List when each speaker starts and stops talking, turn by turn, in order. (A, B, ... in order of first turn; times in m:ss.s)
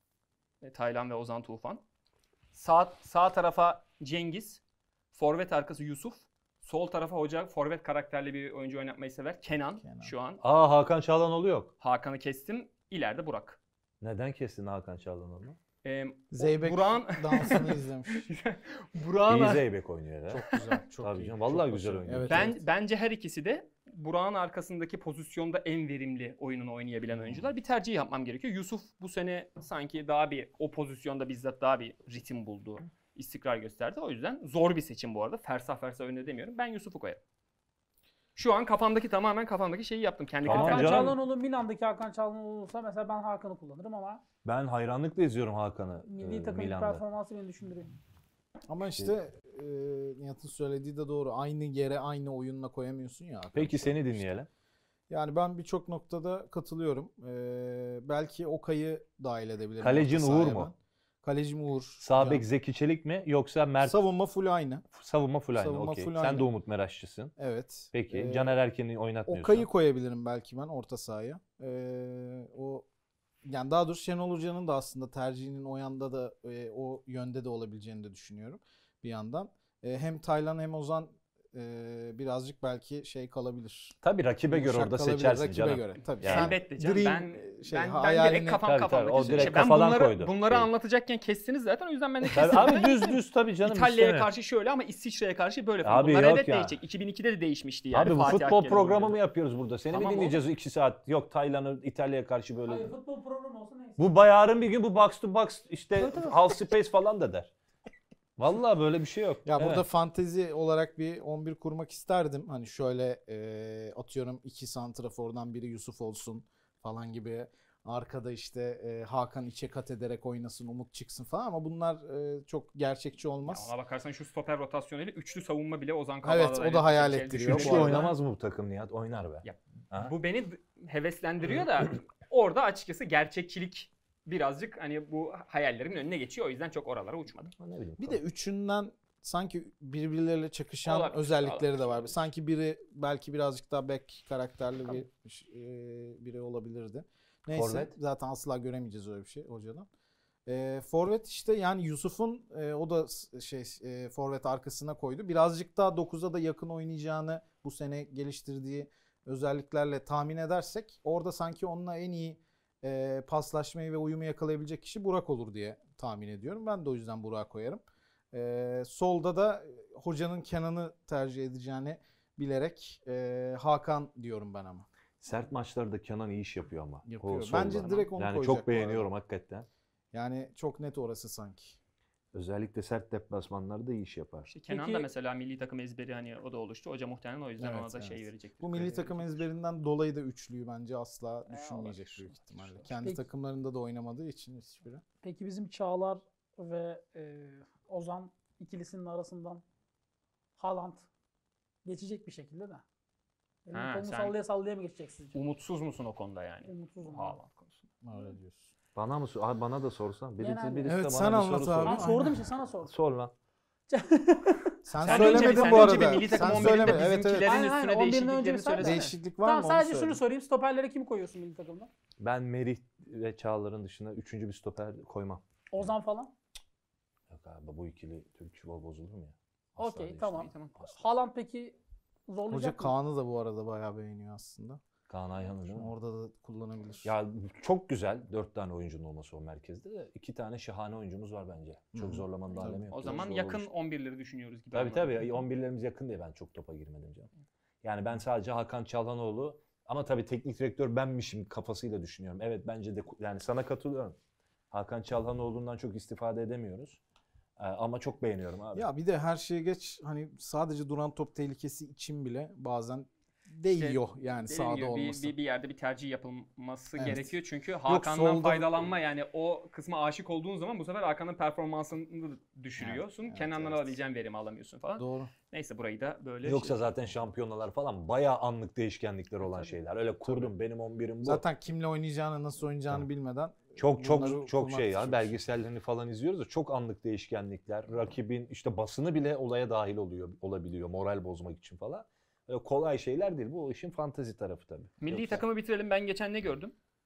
0:00.6-0:01.8 A
0:02.5-0:04.6 A
0:05.1-0:10.4 A
0:09.8-0:10.1 B
0:10.4-0:11.7 C
0:11.8-0:13.6 A
0:14.0-0:15.6 C
0:15.8-0:19.6 A
0:16.3-0:18.3 B
0:19.3-0:20.5 C
0:20.3-0:22.6 B
0:21.0-0:22.6 C
0:22.2-0:37.2 A
0:38.4-0:41.1 A
0:40.4-0:41.2 C
0:40.5-0:44.2 D
0:44.4-0:47.0 C
0:46.1-0:47.9 D
0:48.7-0:54.4 B
0:53.5-0:54.5 C
0:55.1-1:02.4 B
0:59.8-1:00.7 C
1:02.0-1:04.0 C
1:03.8-1:04.8 B
1:04.9-1:07.3 C
1:05.5-1:06.5 B
1:07.4-1:08.5 B
1:07.9-1:09.7 C
1:09.3-1:12.9 B
1:13.4-1:24.0 B
1:24.0-1:26.6 C
1:24.5-1:28.6 B
1:26.2-1:39.2 A
1:28.6-1:30.7 C
1:29.2-1:29.6 B
1:32.3-1:34.3 C
1:35.8-1:36.8 C
1:37.9-1:42.9 C
1:39.9-1:40.4 A
1:42.6-1:44.0 D
1:44.0-1:47.5 C
1:46.0-1:46.3 B
1:48.4-1:49.8 C
1:49.4-2:03.7 B
2:03.4-2:08.1 A
2:06.2-2:08.1 B
2:07.4-2:10.1 C
2:09.4-2:17.5 A
2:17.6-2:18.2 C
2:18.0-2:29.9 B
2:20.8-2:21.9 A
2:27.5-2:27.9 C
2:30.4-2:54.9 B
2:55.2-2:59.7 C
2:57.1-2:59.1 B
3:00.1-3:01.8 B
3:02.3-3:04.5 C
3:04.5-3:09.4 A
3:04.7-3:05.1 D
3:07.6-3:15.0 B
3:11.4-3:12.8 A
3:15.2-3:19.6 D
3:20.6-3:21.1 D
3:21.8-3:22.8 D
3:23.6-3:25.4 D
3:23.7-3:24.4 A
3:25.3-3:27.9 A
3:26.6-3:27.4 D
3:28.0-3:28.7 B
3:28.9-3:32.3 C
3:30.4-3:30.9 D
3:30.8-3:32.4 B
3:31.8-3:32.9 D
3:32.8-3:33.3 C
3:33.9-3:41.9 D
3:34.9-3:37.5 B
3:35.0-3:39.1 A
3:38.8-3:40.2 B
3:42.2-3:45.9 C
3:45.7-3:46.3 D
3:47.3-3:50.9 C
3:49.8-3:51.8 D
3:50.4-3:50.8 A
3:52.3-3:52.9 D
3:52.5-3:54.8 B
3:55.1-3:55.9 C
3:55.6-3:57.1 B
3:57.0-4:03.7 C
4:01.9-4:03.2 B
4:02.9-4:05.2 A
4:04.7-4:07.3 C
4:07.8-4:14.2 C
4:14.7-4:17.0 C
4:17.6-4:18.9 C
4:18.7-4:25.3 B
4:23.8-4:36.8 A
4:27.0-4:28.9 B
4:32.8-4:34.0 B
4:35.0-4:35.3 B
4:36.4-4:41.4 C
4:41.2-4:45.4 B
4:43.8-4:55.4 C
4:55.0-4:56.7 A